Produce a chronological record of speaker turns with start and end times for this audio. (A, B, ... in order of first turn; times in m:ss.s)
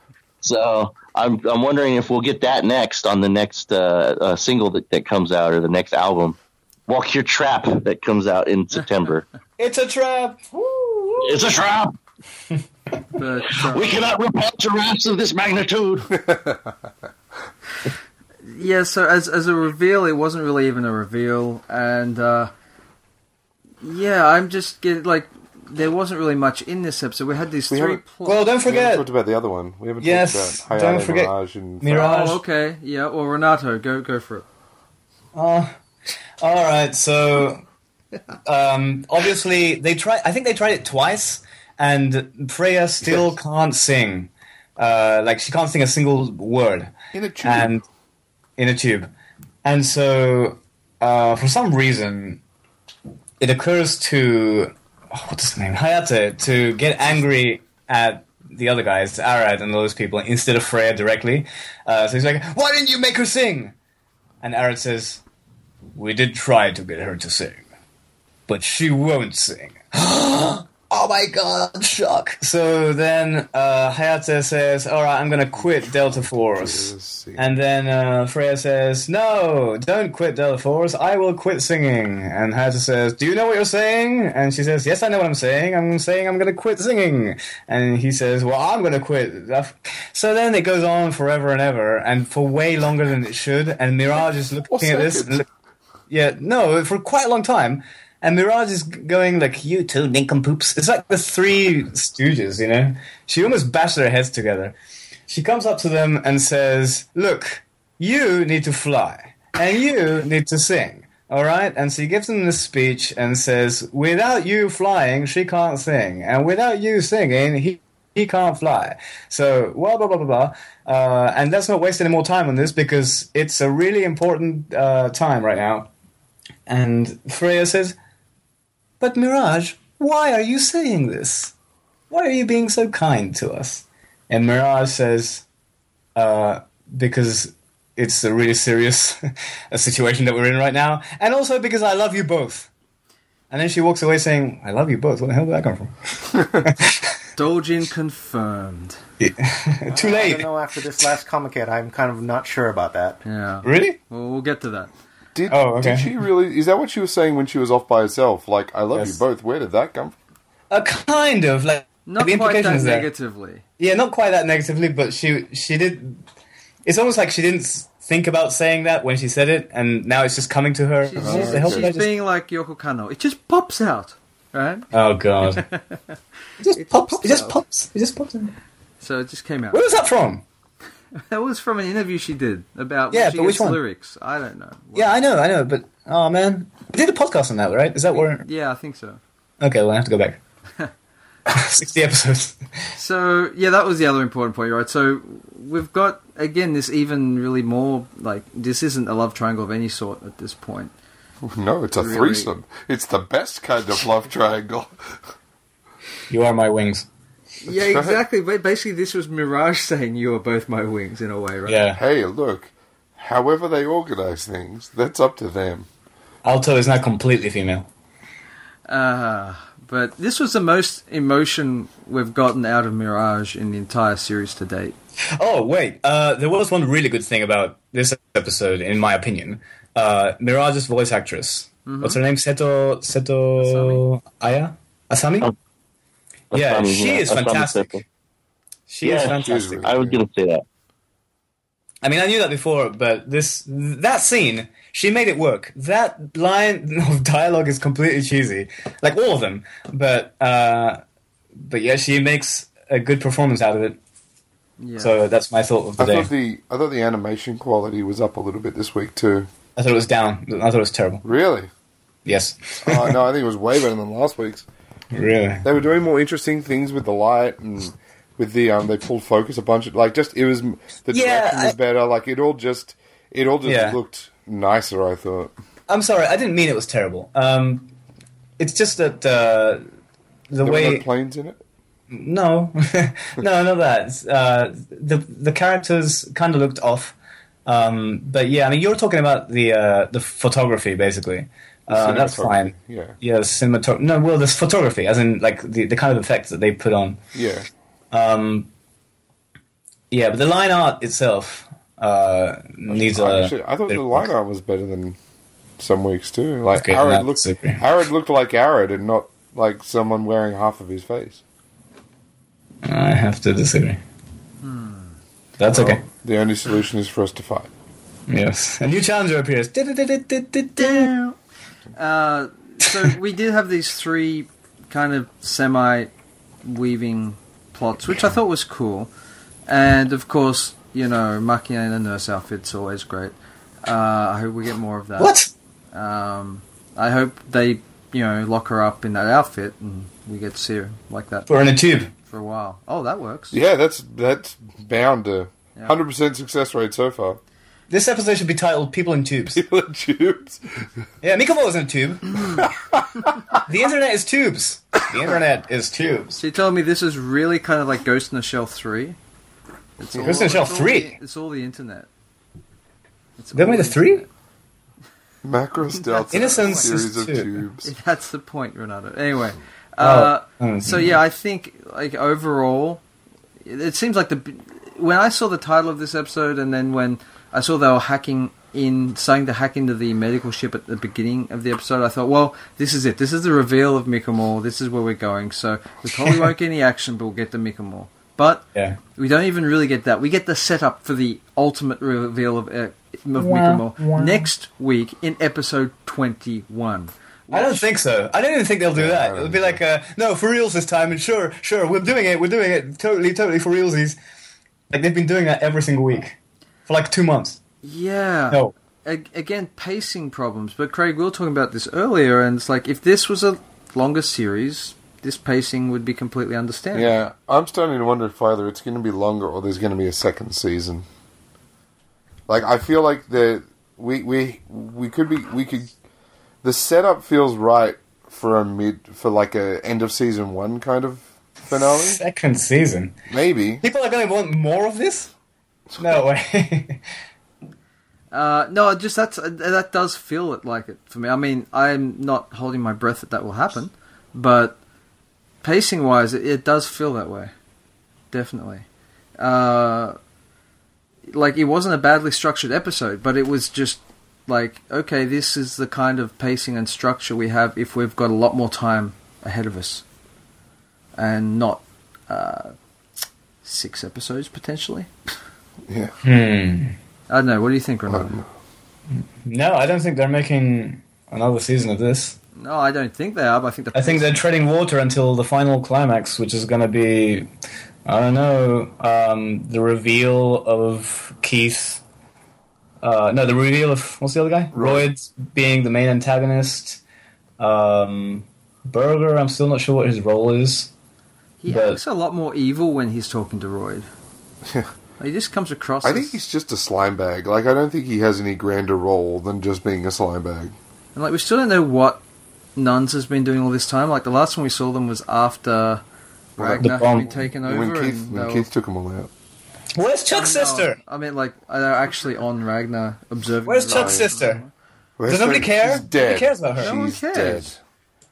0:00.4-0:06.4 A
0:06.9-0:09.2 A
0:09.6-0:11.6 B
0:11.2-0:12.0 A
0:13.2-0:14.1 C
0:13.6-0:16.1 A
0:16.1-0:16.7 D
0:18.4-0:22.5 C
0:23.8-0:28.4 C
0:27.7-0:28.0 D
0:28.2-0:29.0 B
0:28.6-0:32.0 D
0:30.0-0:32.4 B
0:31.9-0:34.4 C
0:35.3-0:35.7 B
0:36.4-0:37.6 B
0:38.5-0:46.9 B
0:47.1-0:47.8 D
0:47.4-0:47.8 B
0:48.6-0:49.1 B
0:49.6-0:52.4 B
0:53.4-1:03.8 B
1:04.4-1:05.2 B
1:06.0-1:07.6 B
1:08.5-1:35.5 B
1:15.5-1:17.6 D
1:34.7-1:35.4 D
1:36.1-1:44.8 B
1:45.3-2:05.9 B
2:06.7-2:08.0 B
2:09.0-2:11.5 B
2:12.1-2:15.4 B
2:16.2-2:19.2 B
2:19.7-2:22.7 B
2:23.5-2:27.0 B
2:27.4-2:29.0 C
2:29.2-2:30.5 B
2:29.9-2:33.2 E
2:33.2-2:34.9 C
2:33.6-2:34.0 B
2:35.4-2:40.2 D
2:35.5-2:36.2 B
2:38.9-2:39.2 B
2:40.7-2:43.1 B
2:42.1-2:43.6 C
2:43.8-2:46.2 B
2:46.9-2:52.1 B
2:51.0-2:54.9 C
2:51.2-2:51.9 D
2:54.9-2:55.7 B
2:55.6-2:56.0 C
2:56.6-2:58.6 B
2:56.7-2:57.6 C
2:59.0-2:59.8 C
2:59.7-3:00.4 B
3:01.3-3:05.1 C
3:03.1-3:03.8 B
3:05.0-3:08.4 B
3:08.1-3:09.2 C
3:09.6-3:10.4 B
3:11.5-3:12.7 B
3:13.0-3:20.9 C
3:21.5-3:25.2 D
3:22.0-3:22.5 C
3:26.3-3:27.1 B
3:27.6-3:31.8 C
3:27.7-3:28.2 D
3:31.7-3:32.0 B
3:31.9-3:35.9 D
3:36.4-3:37.9 B
3:38.9-3:45.0 C
3:45.4-3:55.5 B
3:51.9-3:52.2 C
3:53.6-3:54.0 C
3:56.5-3:58.0 A
3:56.5-3:58.0 B
3:58.9-3:59.8 B
3:59.0-4:00.6 A
3:59.2-4:00.2 D
4:02.0-4:11.0 B
4:11.7-4:14.0 B
4:14.8-4:15.2 C
4:15.0-4:16.3 B
4:16.0-4:19.5 D
4:19.8-4:21.2 B
4:21.2-4:21.7 D
4:22.2-4:23.1 B
4:22.8-4:24.7 D
4:25.1-4:25.7 B
4:25.6-4:35.5 D
4:31.1-4:31.8 B
4:33.6-4:34.0 B
4:35.9-4:37.9 B
4:38.6-4:39.8 B
4:40.5-4:41.0 B
4:40.6-4:41.6 D
4:42.1-4:47.2 B
4:47.7-4:57.2 B
4:51.9-4:53.2 D
4:57.3-4:57.7 D
4:58.1-4:58.7 B
5:00.1-5:04.3 B
5:02.9-5:05.2 D
5:05.8-5:11.4 D
5:06.8-5:07.8 B
5:12.8-5:14.0 B
5:14.6-5:15.2 C
5:15.6-5:16.0 B
5:15.7-5:16.0 C
5:16.2-5:17.7 D
5:18.3-5:21.1 B
5:20.8-5:21.4 C
5:22.0-5:26.1 C
5:26.6-5:29.1 C
5:29.7-5:35.4 C
5:35.2-5:35.5 B
5:35.9-5:41.5 C
5:41.5-5:42.1 B
5:42.3-5:43.6 C
5:43.5-5:47.4 D
5:47.9-5:49.6 B
5:49.5-5:50.9 D
5:51.2-5:52.6 B
5:52.6-5:53.3 D
5:53.6-5:56.4 B
5:56.4-5:59.2 C
6:00.0-6:02.1 C
6:00.1-6:00.4 D
6:00.2-6:01.2 B
6:03.4-6:04.3 C
6:03.6-6:04.2 B
6:05.4-6:07.9 D
6:06.1-6:06.8 C
6:06.3-6:07.5 B
6:07.8-6:13.0 C
6:10.0-6:11.2 B
6:13.6-6:37.9 C
6:33.4-6:34.5 B
6:37.5-6:44.2 B
6:39.0-6:39.8 D
6:44.9-6:47.6 B
6:47.8-6:57.2 C
6:56.9-7:01.1 D
7:02.5-7:05.9 D
7:06.6-7:12.2 D
7:11.7-7:13.2 B
7:13.3-7:13.8 D
7:13.8-7:15.3 B
7:16.0-7:17.0 B
7:18.3-7:24.8 C
7:25.6-7:27.5 C
7:28.3-7:28.9 C
7:29.4-7:30.2 C
7:31.3-7:40.0 C
7:41.2-7:42.8 C
7:43.6-7:45.1 C
7:45.9-7:46.1 D
7:46.2-7:47.0 B
7:47.3-7:48.4 C
7:48.1-7:48.5 D
7:49.4-7:52.4 B
7:52.6-7:54.4 C
7:53.9-7:57.5 B
7:58.1-8:02.0 B
8:03.0-8:07.0 B
8:04.7-8:05.1 D
8:07.6-8:10.9 B
8:11.6-8:14.1 C
8:11.7-8:12.0 B
8:14.6-8:14.9 D
8:15.2-8:16.4 C
8:16.0-8:20.8 D
8:21.2-8:22.2 C
8:22.8-8:26.0 C
8:26.6-8:28.7 C
8:26.8-8:27.3 B
8:27.5-8:29.3 D
8:30.0-8:31.0 B
8:30.3-8:34.7 C
8:33.7-8:34.6 B
8:33.9-8:34.4 D
8:35.2-8:37.8 D
8:35.3-8:37.1 B
8:36.8-8:37.7 C